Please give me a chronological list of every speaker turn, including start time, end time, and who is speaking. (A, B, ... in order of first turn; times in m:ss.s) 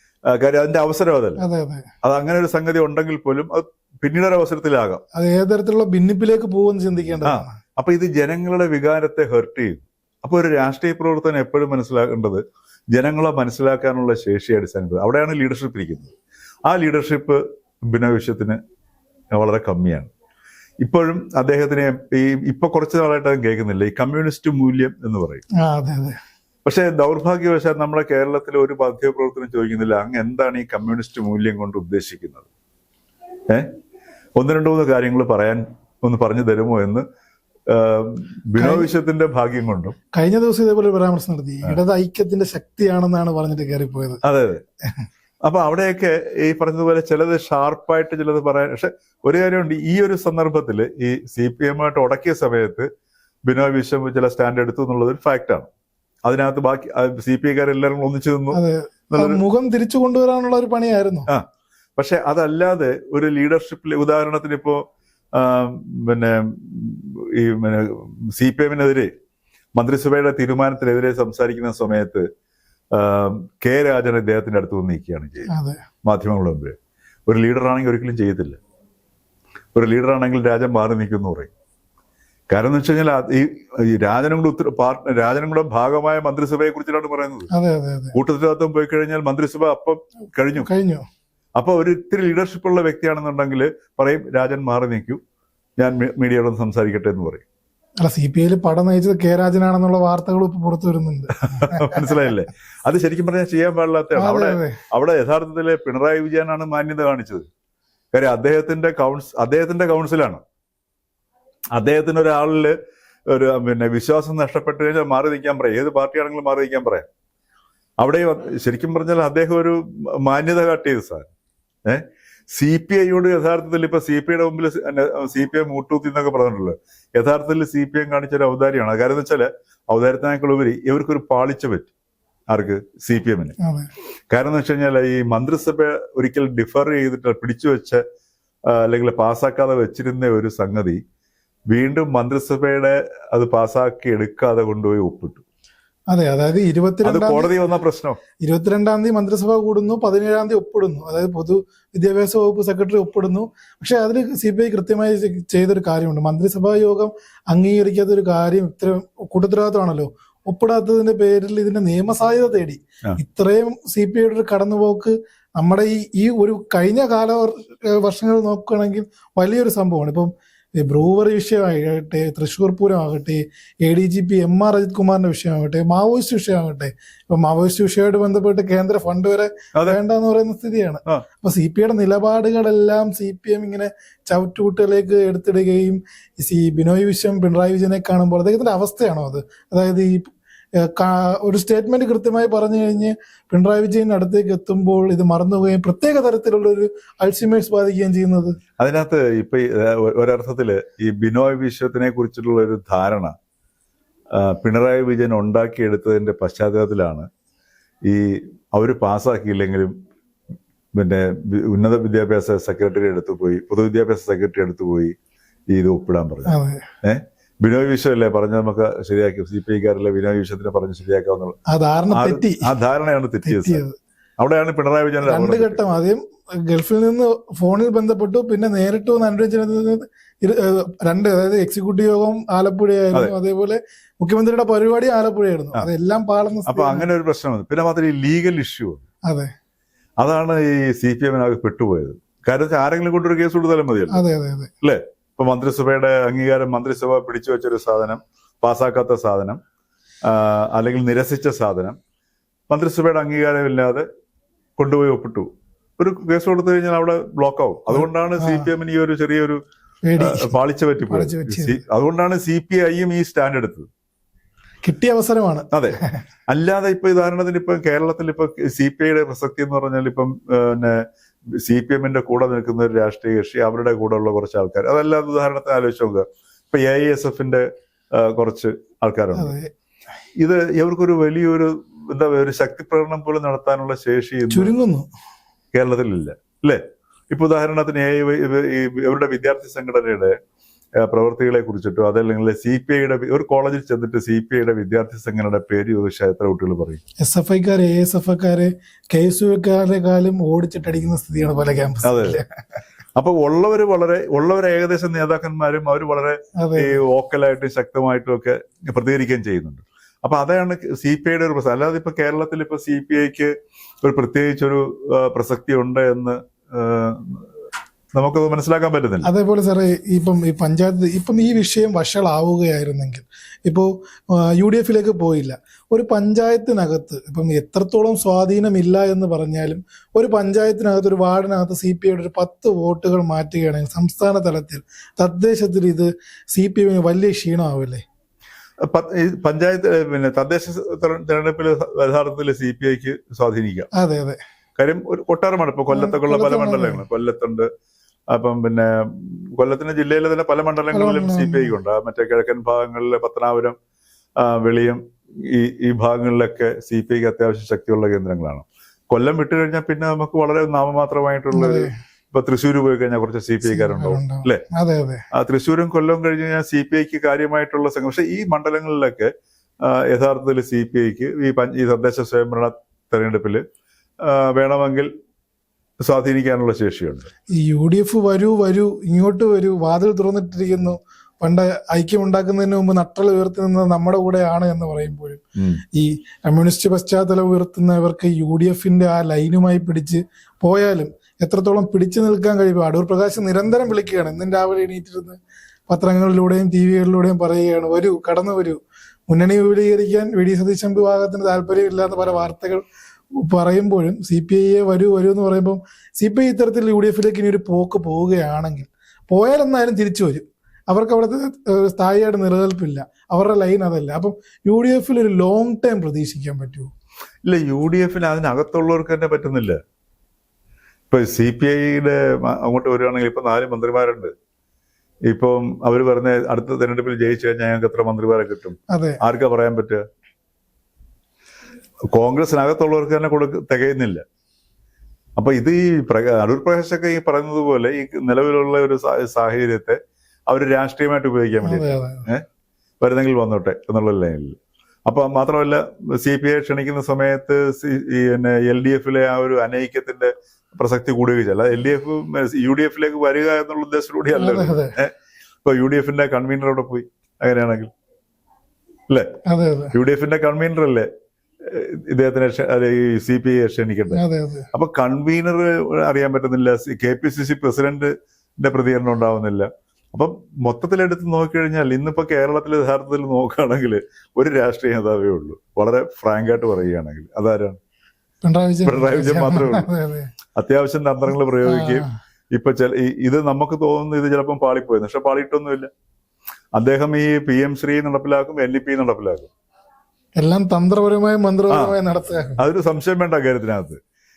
0:00.3-0:01.4 A
0:01.4-0:01.9 B
0:02.0-0:05.0 A
0:05.2-0:07.6 B
0:07.2-0:16.1 A
0:16.7-0:18.6 A
0:19.3-0:20.1 A
0:20.8-0:25.4 A
0:25.6-0:26.2 B
0:26.6-0:32.5 A
0:34.4-0:37.1 A
0:37.7-0:40.0 A
0:38.6-0:38.9 B
0:40.1-0:44.2 B
0:44.2-0:44.7 A
0:45.4-0:52.9 A
0:53.5-0:55.7 A
0:56.2-0:58.6 A
0:58.5-1:01.3 B
0:59.1-0:59.4 A
1:02.0-1:09.1 A
1:09.8-1:12.3 A
1:12.9-1:15.5 A
1:15.5-1:15.8 B
1:16.0-1:16.8 A
1:17.3-1:18.6 A
1:19.8-1:21.5 A
1:22.5-1:27.5 A
1:27.5-1:28.2 B
1:28.1-1:30.7 A
1:30.6-1:31.0 B
1:31.6-1:35.2 A
1:35.8-1:37.4 A
1:38.0-1:42.2 B
1:41.4-1:47.5 A
1:44.2-1:44.8 B
1:48.1-1:50.4 A
1:51.7-1:52.8 A
1:53.3-1:57.1 A
1:58.0-2:01.3 A
2:01.9-2:11.9 A
2:12.5-2:13.6 A
2:13.6-2:13.9 B
2:14.3-2:18.0 A
2:18.7-2:21.0 A
2:21.7-2:25.4 A
2:26.1-2:27.7 B
2:27.0-2:28.2 A
2:28.4-3:18.6 B
3:18.8-3:23.4 A
3:24.3-3:27.3 A
3:28.0-3:29.9 A
3:30.9-3:35.1 A
3:35.7-3:41.6 A
3:36.5-3:36.9 B
3:41.7-3:42.7 B
3:42.1-3:43.8 A
3:43.4-3:44.0 B
3:44.4-3:45.8 A
3:45.2-3:57.1 B
3:56.7-3:59.0 A
3:59.2-3:59.5 B
4:00.2-4:04.2 A
4:04.1-4:04.7 B
4:04.8-4:09.6 A
4:10.2-4:12.0 A
4:12.7-4:14.1 A
4:14.8-4:19.6 A
4:17.9-4:18.7 B
4:20.0-4:20.5 B
4:20.2-4:23.9 A
4:21.1-4:21.8 B
4:24.8-4:26.1 B
4:25.7-4:26.0 A
4:26.5-4:31.0 A
4:31.6-4:39.5 A
4:39.3-4:39.7 B
4:40.4-4:44.7 A
4:44.5-4:45.1 B
4:45.7-4:50.4 A
4:51.0-4:57.0 A
4:57.2-5:02.5 B
5:02.0-5:02.4 A
5:03.2-5:17.5 A
5:06.6-5:07.0 B
5:18.2-5:19.3 A
5:19.2-5:38.0 B
5:38.8-5:43.9 A
5:44.0-5:44.4 B
5:44.8-5:47.7 A
5:45.9-5:47.0 B
5:48.3-5:53.8 A
5:50.9-5:51.8 B
5:54.4-6:04.6 A
6:01.5-6:01.9 B
6:03.6-6:05.2 B
6:05.3-6:09.3 A
6:09.8-6:13.6 A
6:14.2-6:15.1 A
6:16.0-6:17.3 A
6:17.5-6:25.4 B
6:25.6-6:25.8 A
6:25.9-6:35.4 B
6:35.9-6:42.8 B
6:43.4-6:56.9 B
6:57.4-6:59.8 A
7:01.1-7:04.3 A
7:05.3-7:10.0 A
7:08.9-7:09.2 B
7:12.1-7:14.2 A
7:15.4-7:22.4 A
7:21.6-7:22.3 B
7:23.0-7:37.9 A
7:34.3-7:35.0 B
7:39.5-7:40.0 B
7:39.9-7:41.1 A
7:41.6-7:44.2 A
7:44.1-7:44.7 B
7:44.7-7:57.8 A
7:58.4-8:00.3 B
7:58.8-7:59.9 A
8:00.6-8:05.9 A
8:01.6-8:02.2 B
8:06.8-8:09.5 A
8:10.4-8:12.6 B
8:11.7-8:12.0 A
8:12.6-8:14.0 A